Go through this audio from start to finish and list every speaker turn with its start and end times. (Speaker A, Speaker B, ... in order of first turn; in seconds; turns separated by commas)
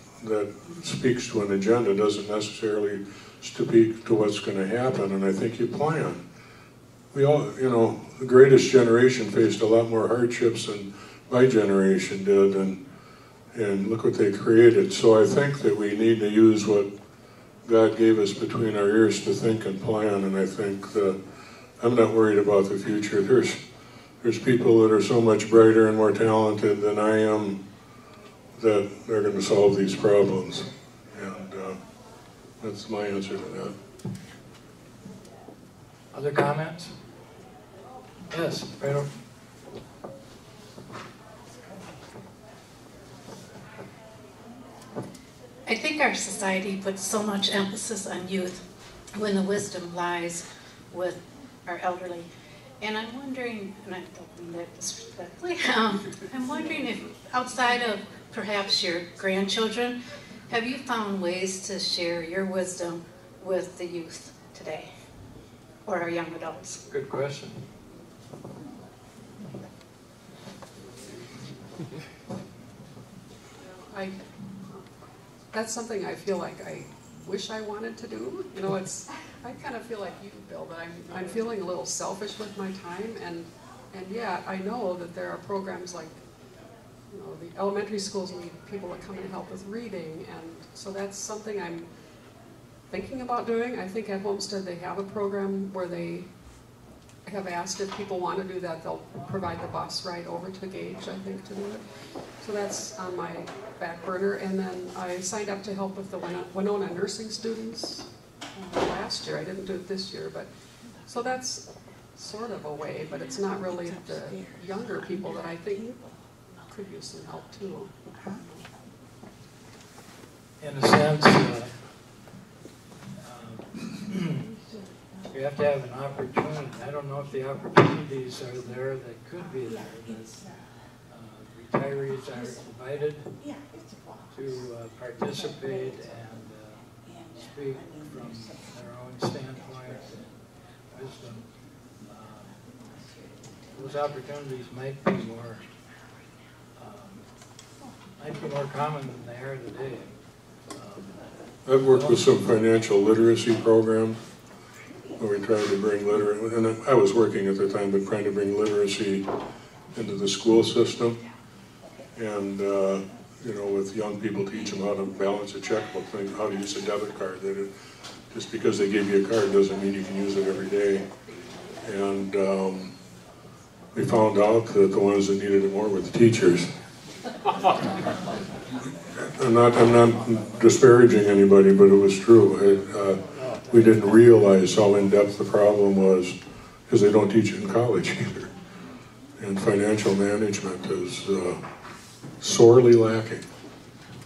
Speaker A: 0.2-6.2, Speaker A: 7.1-12.8, Speaker A: 13.5-16.9, Speaker A: 17.6-21.2, Speaker A: 21.8-23.6, Speaker A: 24.2-27.6, Speaker A: 28.6-31.8, Speaker A: 32.6-33.8, Speaker B: 36.1-36.9, Speaker B: 38.3-39.1, Speaker C: 45.6-48.6, Speaker C: 49.1-52.3, Speaker C: 52.8-60.0, Speaker C: 60.5-64.9, Speaker C: 65.8-66.8, Speaker B: 66.9-67.6, Speaker D: 73.7-74.2, Speaker D: 75.5-86.2, Speaker D: 87.1-91.9, Speaker D: 92.9-96.3, Speaker D: 97.2-101.8, Speaker D: 102.4-110.5, Speaker D: 111.1-116.0, Speaker D: 116.6-117.9, Speaker B: 120.6-121.7, Speaker B: 123.2-124.5, Speaker B: 125.3-130.5, Speaker B: 131.1-133.3, Speaker B: 134.3-136.8, Speaker B: 137.3-140.3, Speaker B: 140.9-141.4, Speaker B: 142.1-142.5, Speaker B: 143.7-145.6, Speaker B: 146.8-147.2, Speaker B: 148.2-150.1, Speaker B: 150.7-151.2, Speaker A: 151.7-154.2, Speaker B: 151.8-152.2, Speaker A: 155.2-159.2, Speaker A: 159.9-161.2, Speaker A: 162.1-167.7, Speaker A: 168.3-171.1, Speaker A: 171.8-172.9, Speaker A: 173.9-176.7, Speaker A: 179.2-186.3, Speaker A: 186.9-188.5, Speaker A: 189.4-191.6, Speaker A: 192.4-193.4